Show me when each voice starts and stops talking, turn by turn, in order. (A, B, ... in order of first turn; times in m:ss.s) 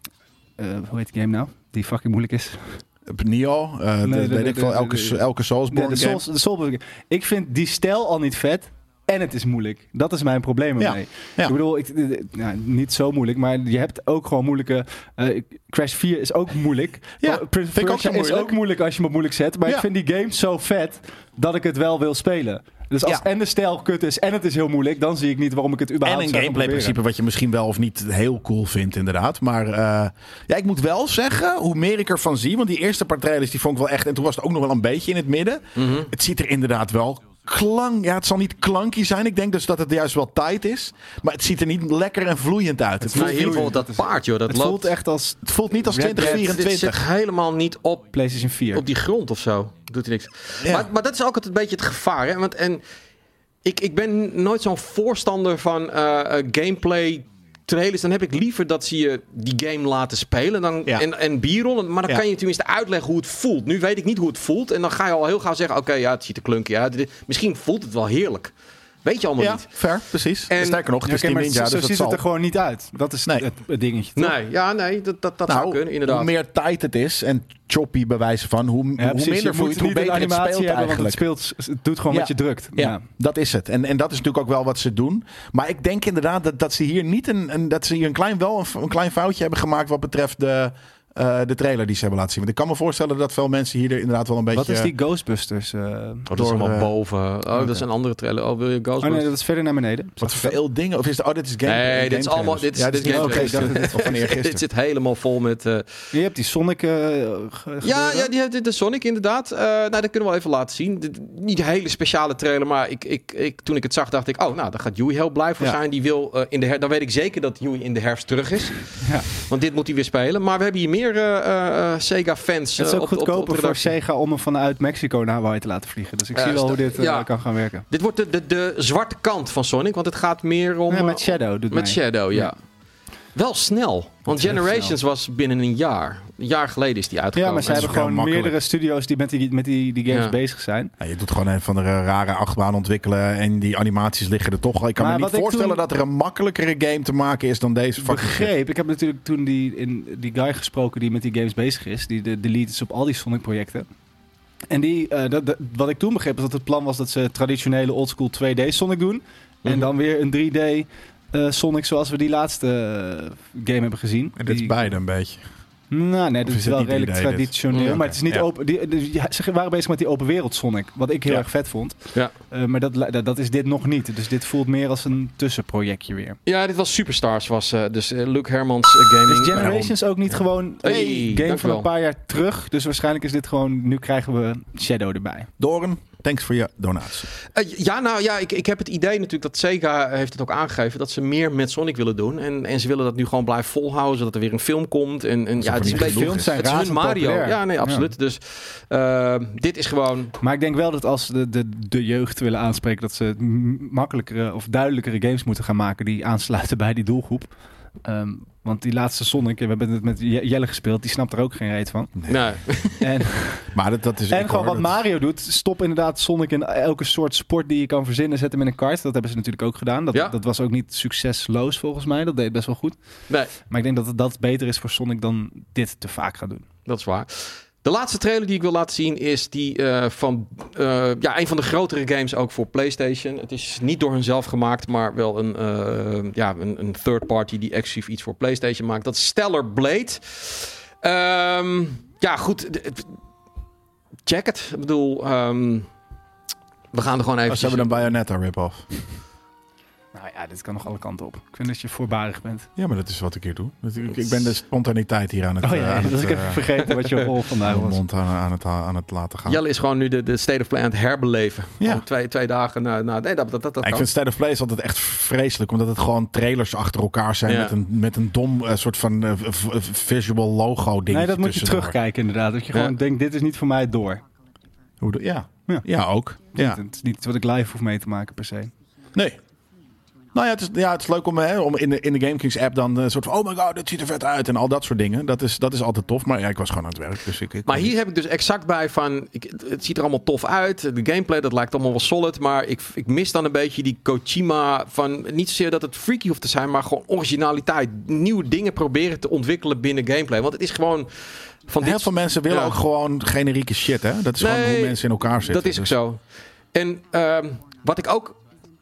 0:00.6-0:02.8 A
0:03.1-0:06.2 B
0:04.0-0:27.0 A
0:10.8-0:11.6 B
0:17.2-0:18.5 B
0:26.0-0:43.7 B
0:35.8-0:36.1 C
0:43.0-0:46.5 A
0:43.1-0:44.9 C
0:45.4-0:47.0 B
0:46.2-0:48.1 C
0:48.1-0:48.9 A
0:48.7-0:52.8 C
0:50.6-0:50.9 B
0:53.6-1:08.5 C
1:09.0-1:09.8 C
1:09.4-1:12.2 B
1:10.5-1:10.8 C
1:11.0-1:14.4 A
1:14.2-1:16.3 C
1:15.5-1:21.2 B
1:19.0-1:23.0 A
1:22.1-1:34.9 B
1:34.5-1:36.3 A
1:36.3-1:39.3 C
1:36.3-1:36.9 B
1:37.5-1:37.8 A
1:39.0-1:40.6 A
1:40.2-1:44.6 B
1:41.6-1:45.9 C
1:43.0-1:44.1 A
1:46.1-1:48.3 A
1:47.8-2:03.9 C
1:59.0-1:59.3 A
2:02.8-2:07.8 A
2:06.4-2:07.3 C
2:07.9-2:12.6 C
2:10.9-2:12.5 A
2:13.4-2:18.0 C
2:14.3-2:14.9 A
2:17.4-2:20.9 A
2:17.7-2:18.6 B
2:20.1-2:20.4 C
2:21.0-2:28.5 B
2:25.0-2:25.8 A
2:28.0-2:33.9 A
2:34.7-2:44.9 A
2:44.4-2:45.4 B
2:45.9-2:52.0 A
2:46.4-2:48.4 B
2:47.7-2:48.0 C
2:52.5-2:56.4 A
2:56.4-2:59.7 C
2:59.3-3:05.5 A
2:59.6-2:59.9 B
3:00.8-3:01.9 C
3:00.8-3:01.3 B
3:05.6-3:07.3 B
3:07.5-3:20.4 C
3:15.6-3:16.5 B
3:15.8-3:18.1 A
3:20.4-3:27.5 A
3:28.0-3:32.1 A
3:32.3-3:33.1 C
3:33.0-3:33.7 A
3:33.7-3:35.0 B
3:34.3-3:43.0 A
3:43.7-3:46.6 A
3:46.9-4:03.1 C
4:04.3-4:05.9 C
4:06.9-4:08.0 C
4:07.5-4:08.9 B
4:10.1-4:12.7 A
4:12.8-4:16.7 B
4:15.6-4:18.0 A
4:17.6-4:19.6 B
4:19.4-4:24.1 C
4:23.8-4:32.0 B
4:27.5-4:27.7 C
4:31.1-4:34.2 A
4:35.0-4:36.8 B
4:36.5-4:38.7 A
4:40.4-4:47.9 B
4:47.7-5:02.8 C
5:01.8-5:06.0 B
5:04.4-5:06.2 C
5:06.7-5:08.4 C